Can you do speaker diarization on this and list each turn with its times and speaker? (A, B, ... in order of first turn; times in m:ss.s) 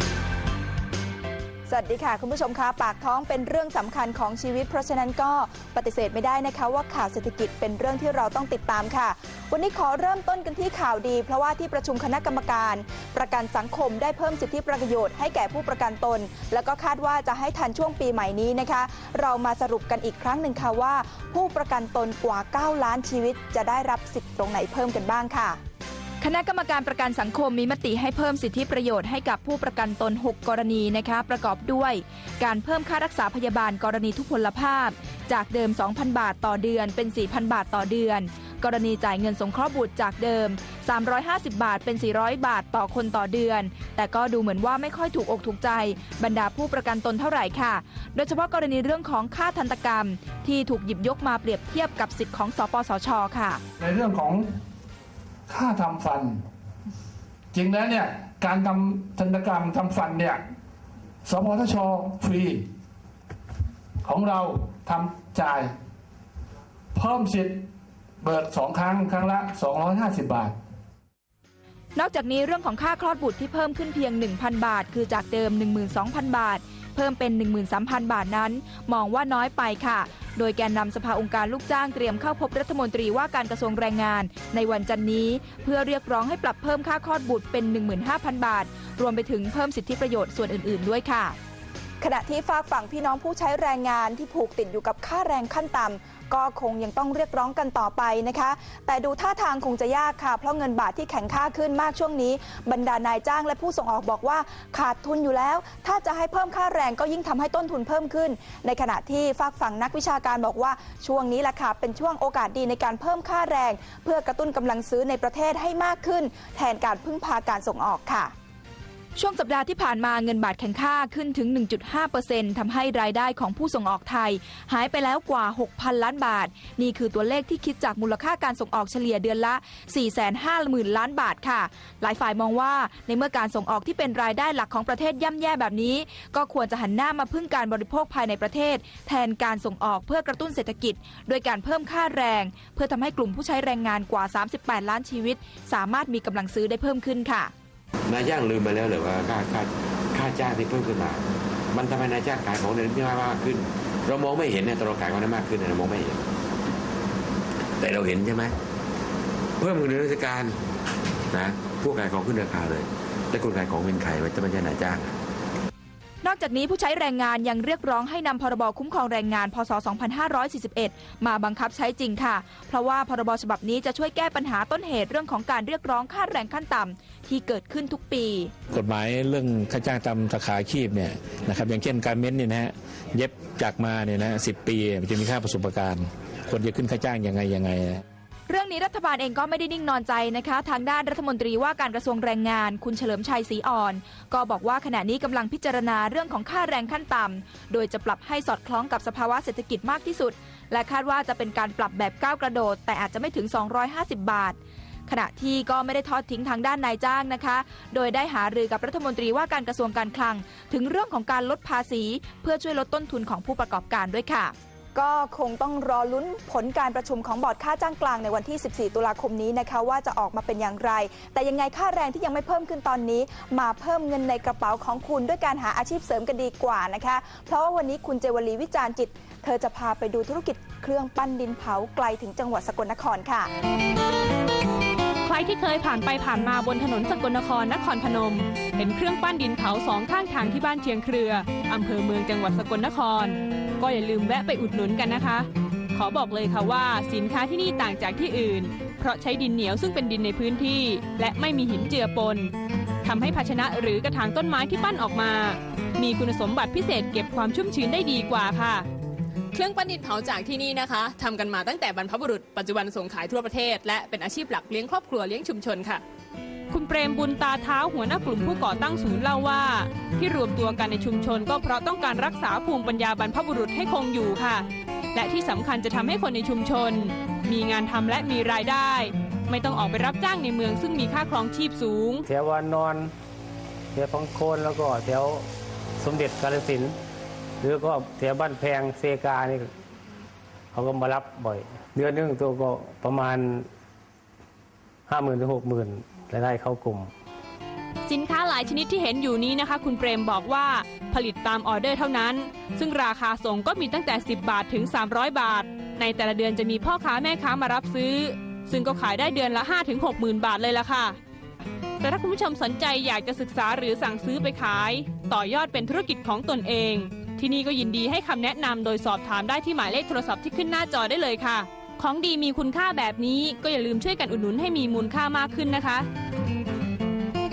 0:01.7-0:25.6 A
0:26.2-0:53.6 B
0:53.8-0:54.5 C
0:55.5-0:56.4 C
0:57.5-1:00.4 C
1:01.2-1:02.6 C
1:04.0-1:05.7 C
1:06.9-1:07.6 C
1:08.2-1:10.5 C
1:11.9-1:31.3 B
1:32.0-1:58.3 A
1:59.2-2:27.5 B
2:28.0-2:36.2 D
2:37.8-2:38.6 D
2:39.6-2:40.6 D
2:41.3-2:45.2 D
2:46.2-2:58.5 B
2:58.7-3:08.0 E
3:08.5-3:34.5 B
3:34.9-3:53.5 A
3:55.2-4:12.5 F
4:13.0-4:18.8 F
4:19.5-4:26.0 G
4:26.7-4:42.2 F
4:42.3-4:43.1 H
4:43.9-4:45.5 H
4:46.0-4:47.0 H
4:47.6-4:49.7 H
4:50.7-4:53.7 H
4:55.1-4:57.1 H
4:58.1-5:11.2 F
5:12.0-5:26.1 F